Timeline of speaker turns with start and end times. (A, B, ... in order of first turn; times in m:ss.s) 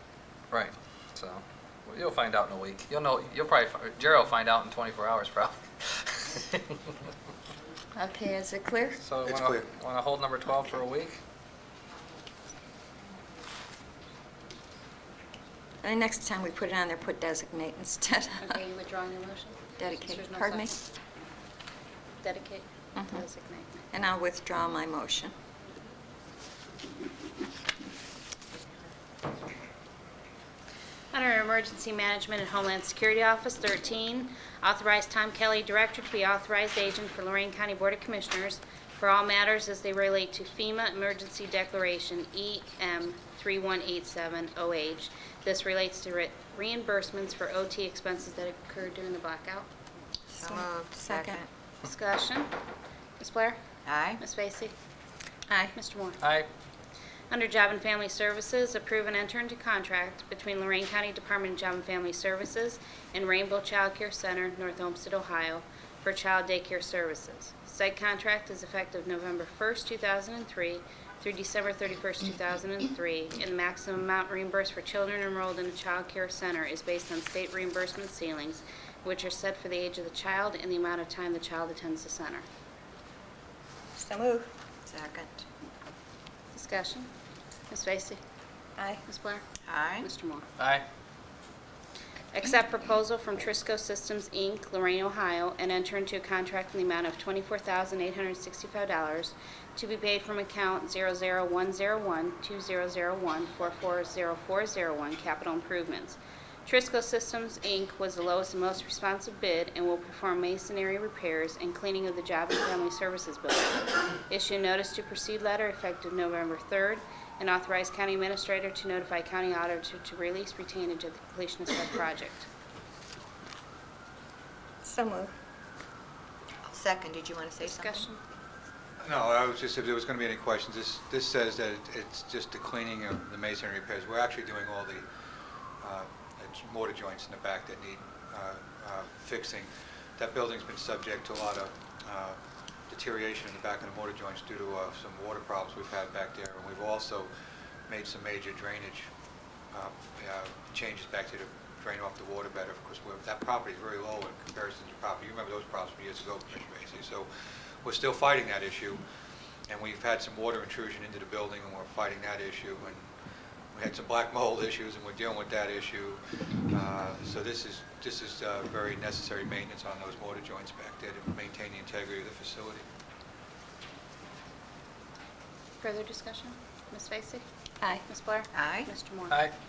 0:00.5-0:06.7 A
0:08.0-0:09.0 B
0:09.0-0:11.2 A
0:09.2-0:09.6 C
0:15.8-0:18.6 B
0:18.4-0:20.8 D
0:19.8-0:20.7 B
0:22.2-0:23.8 D
0:22.9-0:23.2 B
0:23.9-0:25.3 B
0:31.1-0:49.7 D
0:50.4-0:51.4 E
0:50.4-0:51.4 B
0:51.8-0:52.5 D
0:53.2-0:53.6 D
0:53.8-0:54.2 E
0:54.2-0:54.7 D
0:55.5-0:55.8 B
0:55.7-0:56.2 D
0:56.2-0:56.5 A
0:57.3-1:22.4 D
1:24.0-1:24.5 B
1:24.9-1:25.4 E
1:26.5-1:27.1 D
1:27.7-1:28.2 D
1:28.8-1:29.0 B
1:29.0-1:29.4 D
1:29.6-1:30.1 E
1:30.0-1:30.4 D
1:30.6-1:30.8 A
1:32.3-2:02.5 D
2:04.8-2:05.3 B
2:06.6-2:08.1 E
2:07.6-2:08.2 D
2:09.0-2:15.0 C
2:15.8-2:22.4 C
2:22.9-2:27.3 C
2:27.9-2:29.1 C
2:29.7-2:39.0 C
2:39.7-2:43.1 C
2:43.7-2:52.8 C
2:55.8-2:57.4 D
2:58.0-2:59.5 D
2:58.5-2:58.9 E